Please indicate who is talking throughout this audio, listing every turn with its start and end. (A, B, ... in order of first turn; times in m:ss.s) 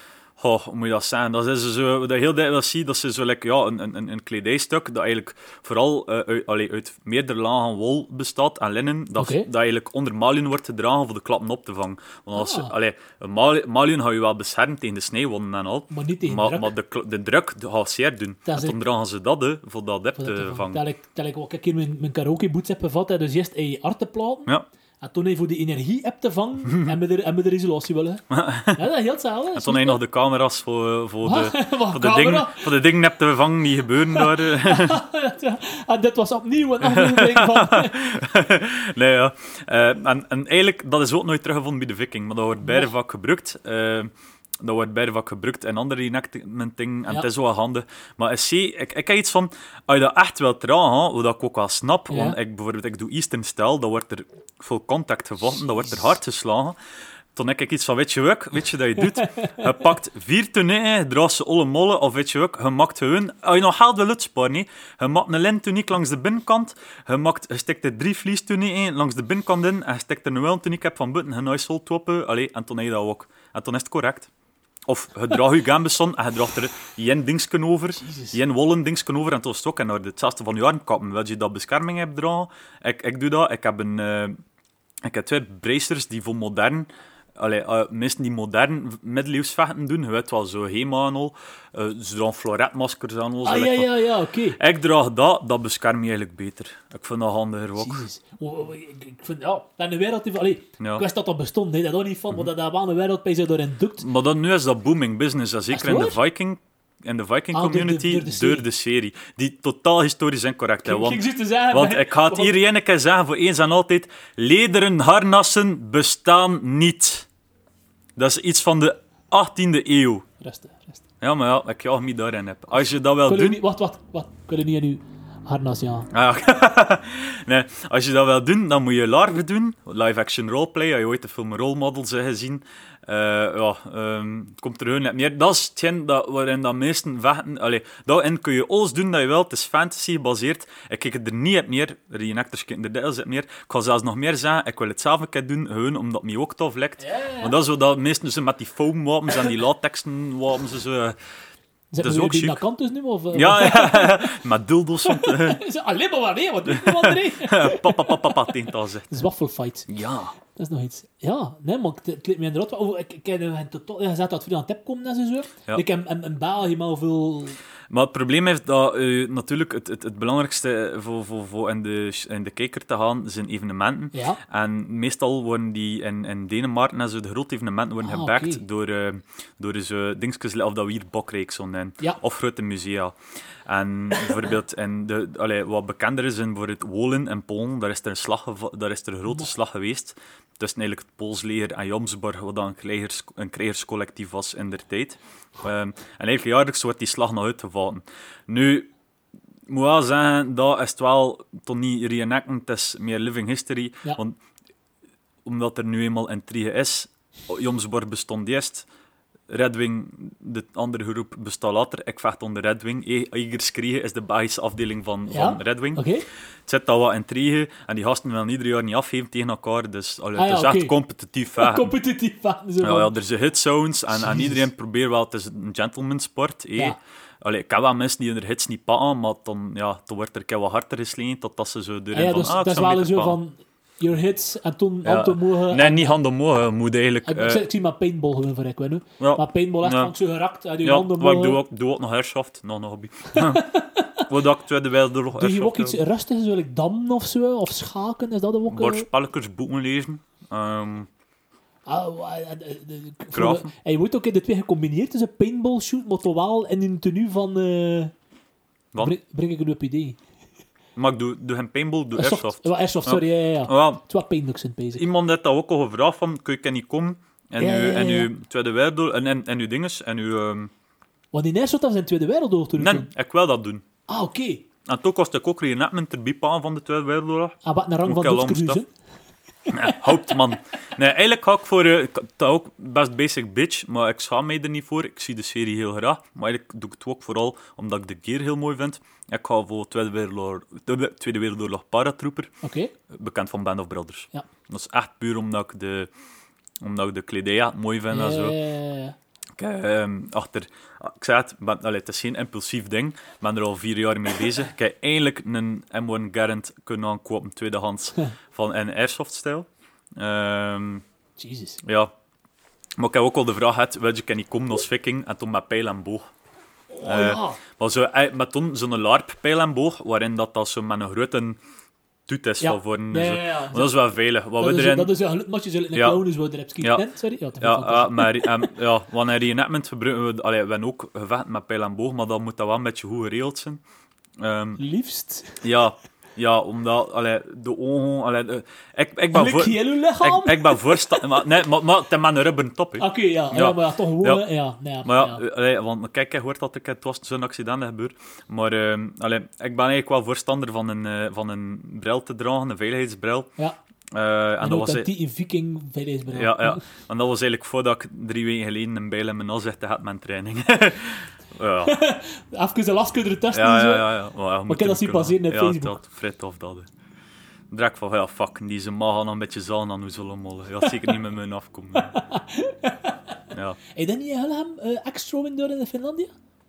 0:00.4-0:20.8 A
0:09.2-0:09.5 B
0:12.4-0:12.7 B
0:15.9-0:16.7 B
0:18.5-0:18.8 B
0:20.2-0:24.5 B
0:25.0-0:30.0 B
0:28.3-0:28.8 A
0:29.5-0:35.0 A
0:31.2-0:32.7 B
0:34.1-0:38.0 B
0:36.8-0:56.8 A
0:42.6-0:42.9 B
0:52.1-0:52.4 B
0:57.4-1:14.3 A
0:59.0-0:59.8 B
1:14.9-1:24.4 A
1:18.0-1:18.4 B
1:25.0-1:34.0 A
1:33.4-1:34.6 B
1:34.6-1:38.0 A
1:37.8-1:44.1 B
1:44.0-1:57.3 A
1:45.7-1:46.2 B
1:47.5-1:48.7 B
1:50.8-1:52.6 B
1:58.2-2:00.2 A
2:00.4-2:01.0 B
2:01.2-2:03.6 A
2:02.8-2:06.1 B
2:06.1-2:31.2 A
2:27.0-2:27.5 B
2:31.9-2:34.4 B
2:32.0-2:32.6 A
2:33.3-2:35.6 A
2:35.0-2:39.9 B
2:36.7-2:39.2 A
2:39.9-2:40.3 A
2:40.4-2:47.6 B
2:47.9-3:18.9 A
2:54.1-2:54.4 B
2:58.0-2:58.6 B
3:19.7-3:24.4 A
3:25.4-3:28.9 A
3:29.5-3:36.1 A
3:35.3-3:36.3 B
3:36.7-3:41.9 A
3:40.4-3:40.9 B
3:41.6-3:43.1 B
3:42.8-3:53.4 A
3:44.2-3:44.6 B
3:52.1-3:56.2 B
3:55.0-3:57.6 A
3:57.3-4:01.6 B
3:59.2-4:00.1 A
4:00.8-4:03.6 A
4:03.3-4:04.2 B
4:04.3-4:06.0 A
4:05.3-4:09.1 B
4:08.7-4:11.1 A
4:11.9-4:18.1 B
4:13.3-4:13.7 A
4:19.0-4:20.2 B
4:21.0-4:24.0 A
4:22.2-4:25.0 B
4:25.0-4:30.7 A
4:27.6-4:28.3 B
4:31.3-4:33.1 B
4:32.8-4:33.8 A
4:34.1-4:34.6 B
4:34.8-4:38.8 A
4:37.6-4:38.9 B
4:39.7-4:40.4 B
4:39.7-4:52.5 A
4:52.6-4:52.9 B
4:53.1-4:56.1 A
4:56.8-4:58.6 A
4:58.1-4:59.2 B
4:59.6-5:11.0 A
5:11.4-5:11.8 B
5:11.8-5:12.1 A
5:13.0-5:16.3 A
5:16.9-5:17.6 B
5:17.0-5:21.6 A
5:22.3-5:25.1 A
5:22.6-5:24.0 B
5:24.6-5:28.7 B
5:25.9-5:26.2 A
5:26.8-5:27.0 A
5:27.6-5:33.8 A
5:34.4-5:34.8 A
5:34.8-5:35.6 B
5:35.6-5:44.4 A
5:39.3-5:41.4 B
5:43.0-5:45.4 B
5:45.0-5:53.5 A
5:54.1-5:55.1 A
5:54.6-5:56.8 B
5:56.3-6:02.0 A
6:01.8-6:04.1 B
6:03.5-6:06.9 A
6:04.7-6:06.0 B
6:07.7-6:12.2 A
6:12.0-6:13.4 B
6:13.5-6:13.8 A
6:14.0-6:16.3 B